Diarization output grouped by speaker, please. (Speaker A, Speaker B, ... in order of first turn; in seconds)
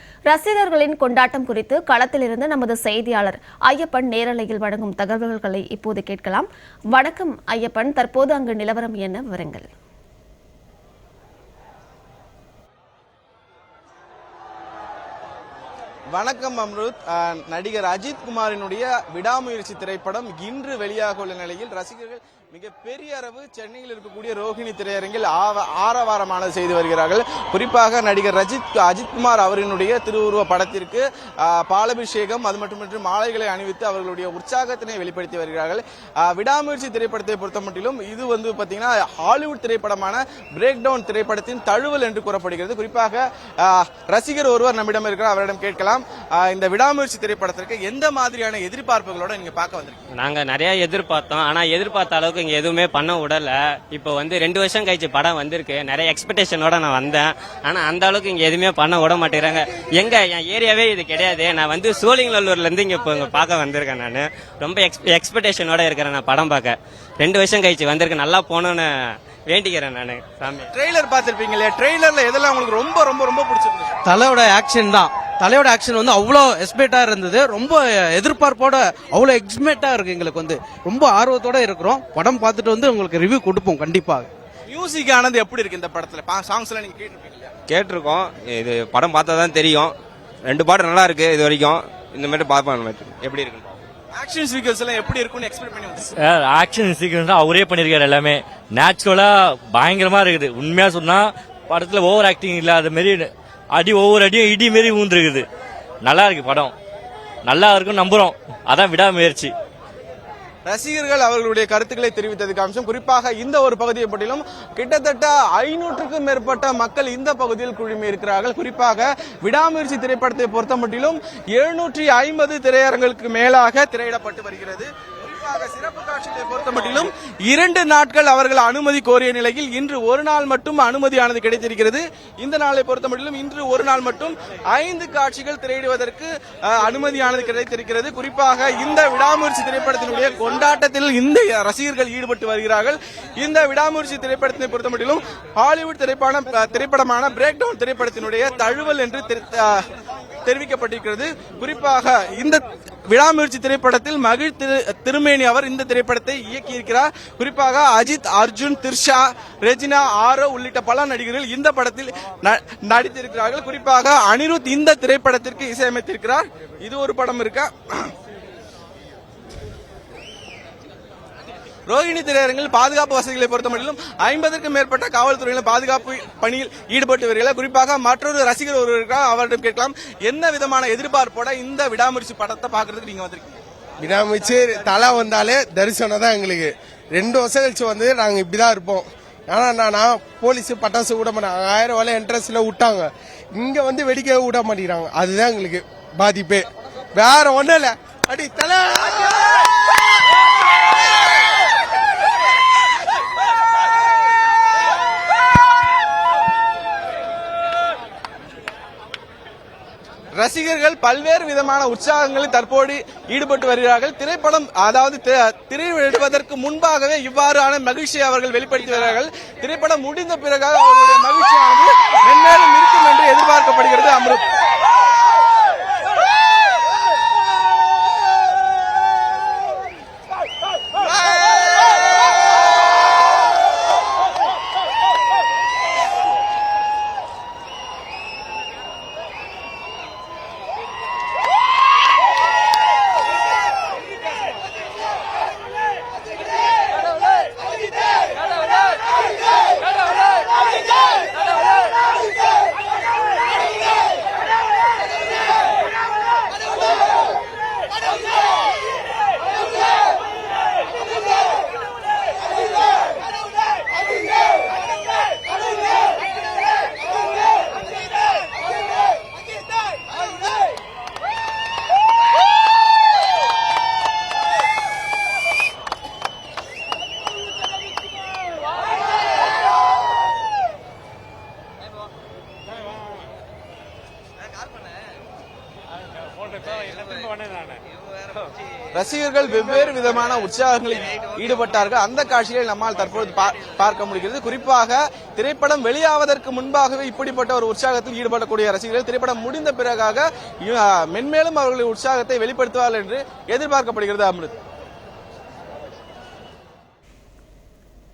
Speaker A: 0.3-9.7
Speaker B: 16.1-50.1, 70.7-74.0, 84.7-87.5, 94.1-96.1, 110.6-149.8, 150.4-168.1, 171.9-183.6, 210.3-224.5, 231.1-231.6, 288.9-304.6
Speaker C: 50.2-68.9, 69.5-70.7
Speaker D: 74.0-84.3
Speaker E: 87.7-93.8
Speaker F: 96.2-105.5, 106.0-106.7, 107.5-109.5
Speaker G: 184.0-199.6